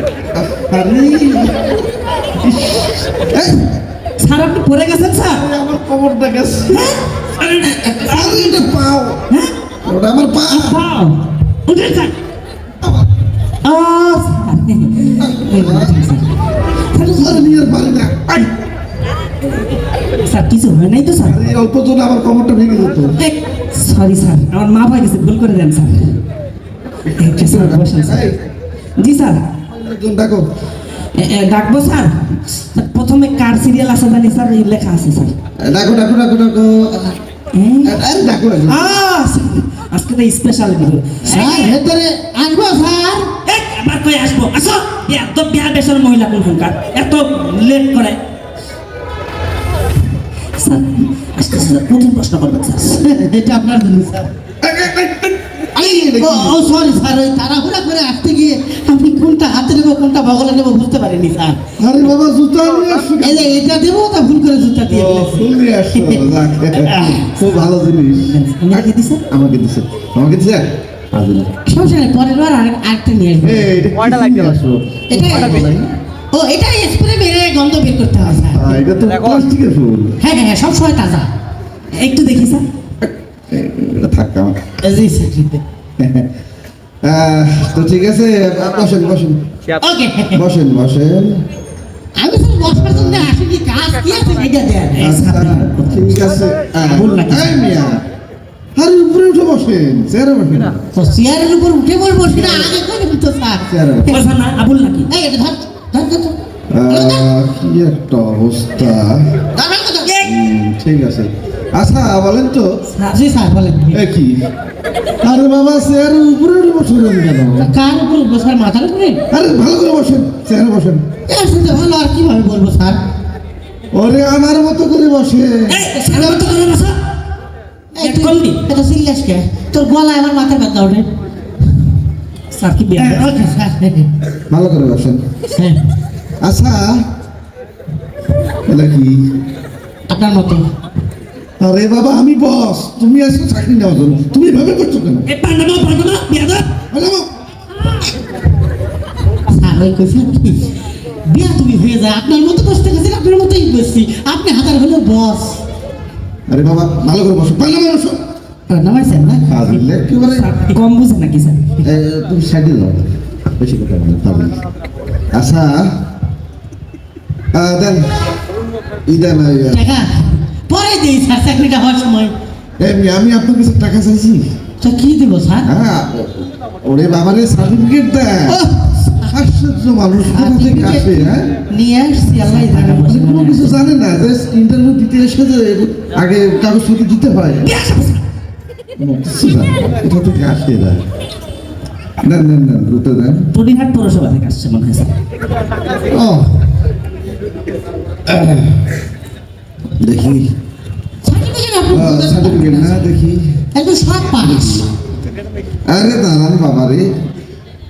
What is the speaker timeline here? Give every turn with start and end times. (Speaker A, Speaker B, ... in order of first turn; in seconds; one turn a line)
Speaker A: 0.3-1.8
Speaker A: 2.4-3.7
Speaker B: 4.2-5.5
Speaker A: 5.3-6.9
Speaker B: 6.7-8.0
Speaker A: 7.6-9.2
Speaker A: 9.8-10.8
Speaker B: 10.6-12.1
Speaker A: 12.8-13.1
Speaker B: 13.6-16.3
Speaker A: 15.2-16.0
Speaker B: 16.9-17.6
Speaker A: 17.1-18.5
Speaker B: 20.3-21.4
Speaker A: 21.2-23.1
Speaker B: 23.2-26.2
Speaker B: 27.2-28.4
Speaker A: 27.2-28.4
Speaker B: 29.0-29.4
Speaker A: 29.7-30.5
Speaker B: 31.1-35.3
Speaker A: 35.6-37.2
Speaker B: 37.5-38.0
Speaker A: 37.9-39.0
Speaker B: 38.7-41.8
Speaker C: 41.2-43.3
Speaker B: 43.4-48.2
Speaker B: 50.6-53.0
Speaker C: 53.0-54.3
Speaker A: 54.6-56.6
Speaker C: 55.8-61.6
Speaker A: 61.8-63.6
Speaker C: 63.2-65.5
Speaker A: 64.9-71.5
Speaker C: 66.0-66.2
Speaker B: 67.0-67.3
Speaker B: 68.3-69.2
Speaker C: 71.7-73.8
Speaker A: 73.4-75.9
Speaker C: 75.1-75.7
Speaker C: 76.3-78.8
Speaker A: 78.2-80.2
Speaker C: 80.2-81.3
Speaker B: 81.9-82.7
Speaker A: 83.0-84.6
Speaker C: 84.8-85.6
Speaker A: 86.0-86.3
Speaker A: 87.0-89.4
Speaker C: 89.8-90.4
Speaker A: 90.3-91.4
Speaker C: 92.2-95.1
Speaker A: 92.7-93.3
Speaker B: 95.0-96.2
Speaker A: 95.0-98.0
Speaker B: 96.8-97.6
Speaker A: 98.8-100.8
Speaker C: 100.9-104.2
Speaker A: 102.3-102.8
Speaker A: 103.7-104.2
Speaker B: 104.1-105.1
Speaker C: 105.1-106.4
Speaker A: 106.7-109.3
Speaker C: 106.9-107.3
Speaker C: 109.5-110.1
Speaker B: 110.0-110.3
Speaker A: 110.2-112.7
Speaker B: 112.9-113.2
Speaker C: 113.1-114.0
Speaker A: 113.9-114.4
Speaker A: 115.2-117.7
Speaker C: 117.6-119.2
Speaker A: 119.3-121.0
Speaker C: 121.3-123.0
Speaker A: 123.9-125.8
Speaker B: 125.7-127.0
Speaker C: 125.9-126.7
Speaker C: 128.0-131.1
Speaker B: 128.0-128.6
Speaker B: 132.5-133.3
Speaker C: 133.0-134.1
Speaker A: 134.5-135.2
Speaker C: 135.6-135.9
Speaker A: 136.4-137.1
Speaker A: 138.7-139.3
Speaker C: 140.1-140.7
Speaker A: 141.6-145.3
Speaker B: 145.3-146.7
Speaker A: 146.9-147.3
Speaker C: 149.5-150.7
Speaker C: 151.2-155.6
Speaker A: 156.5-158.2
Speaker C: 158.7-159.6
Speaker A: 159.5-160.5
Speaker B: 160.2-161.8
Speaker A: 161.8-164.6
Speaker A: 165.3-166.0
Speaker A: 167.5-168.1
Speaker A: 169.1-169.8
Speaker C: 169.7-172.3
Speaker A: 172.8-174.5
Speaker C: 174.8-175.7
Speaker A: 175.7-178.6
Speaker C: 178.5-179.4
Speaker A: 179.3-181.5
Speaker C: 180.2-183.8
Speaker B: 182.3-183.1
Speaker A: 182.7-187.7
Speaker B: 187.6-188.2
Speaker A: 189.0-191.1
Speaker A: 192.2-193.5
Speaker B: 193.5-195.1
Speaker C: 196.1-196.6
Speaker A: 198.3-198.7
Speaker A: 200.0-200.5
Speaker C: 201.2-203.1
Speaker A: 201.9-203.5
Speaker C: 203.8-204.9
Speaker A: 204.4-204.9
Speaker A: 205.9-207.2